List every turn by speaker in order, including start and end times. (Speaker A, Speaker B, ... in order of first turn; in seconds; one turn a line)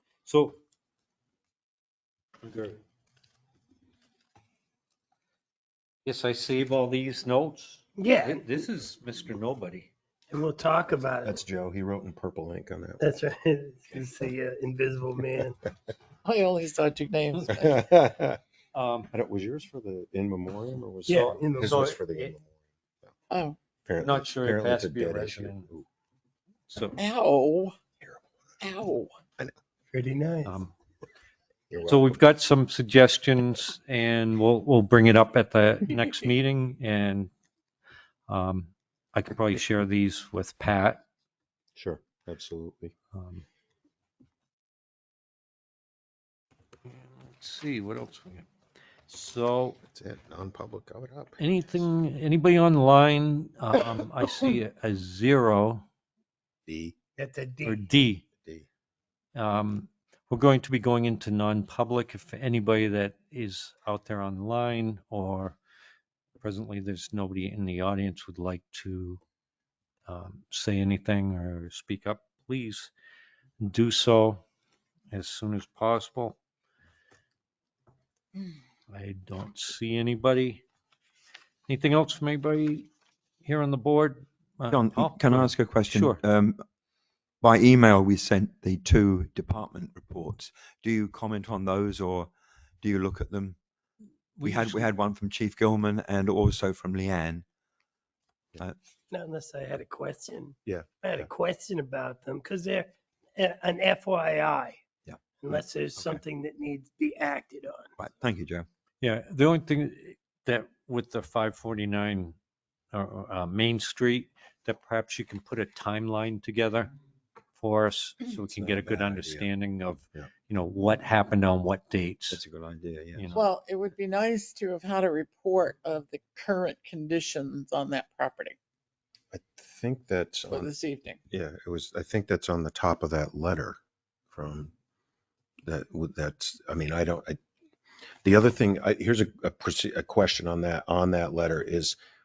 Speaker A: 0.2-0.6
Speaker A: 2.4-2.8
Speaker A: 6.0-9.9
Speaker B: 8.0-8.6
Speaker B: 10.3-11.4
Speaker C: 11.2-13.0
Speaker B: 13.0-15.6
Speaker D: 16.2-17.9
Speaker C: 17.5-18.4
Speaker A: 18.7-19.1
Speaker C: 19.1-23.1
Speaker B: 21.1-22.0
Speaker A: 21.6-22.3
Speaker D: 23.3-23.6
Speaker C: 23.8-25.9
Speaker A: 24.0-25.7
Speaker A: 26.7-27.0
Speaker D: 26.9-27.8
Speaker C: 28.0-28.3
Speaker D: 28.6-29.2
Speaker B: 29.9-30.6
Speaker A: 30.4-30.7
Speaker C: 31.7-32.2
Speaker A: 31.8-37.3
Speaker A: 38.3-41.0
Speaker C: 41.7-42.9
Speaker A: 43.1-43.4
Speaker A: 46.9-48.5
Speaker A: 49.1-49.8
Speaker C: 49.9-51.4
Speaker A: 51.4-55.8
Speaker C: 56.6-57.0
Speaker B: 57.2-57.9
Speaker A: 57.6-58.2
Speaker A: 59.4-65.6
Speaker A: 66.4-69.2
Speaker A: 70.1-72.9
Speaker A: 73.6-74.4
Speaker A: 75.1-76.4
Speaker A: 78.9-80.6
Speaker A: 81.7-82.9
Speaker A: 83.4-86.2
Speaker E: 84.7-86.6
Speaker E: 87.4-93.5
Speaker A: 94.4-94.9
Speaker E: 94.4-97.4
Speaker B: 99.1-104.8
Speaker C: 100.6-101.3
Speaker B: 105.4-107.9
Speaker E: 108.0-108.7
Speaker A: 109.0-112.3
Speaker A: 112.9-116.9
Speaker A: 117.6-122.4
Speaker C: 118.5-119.5
Speaker E: 122.3-123.3
Speaker A: 123.1-123.4
Speaker D: 123.3-128.6
Speaker C: 129.3-130.7
Speaker D: 130.5-131.2
Speaker C: 131.3-133.8
Speaker C: 134.3-134.7
Speaker C: 135.7-137.4
Speaker C: 138.2-142.0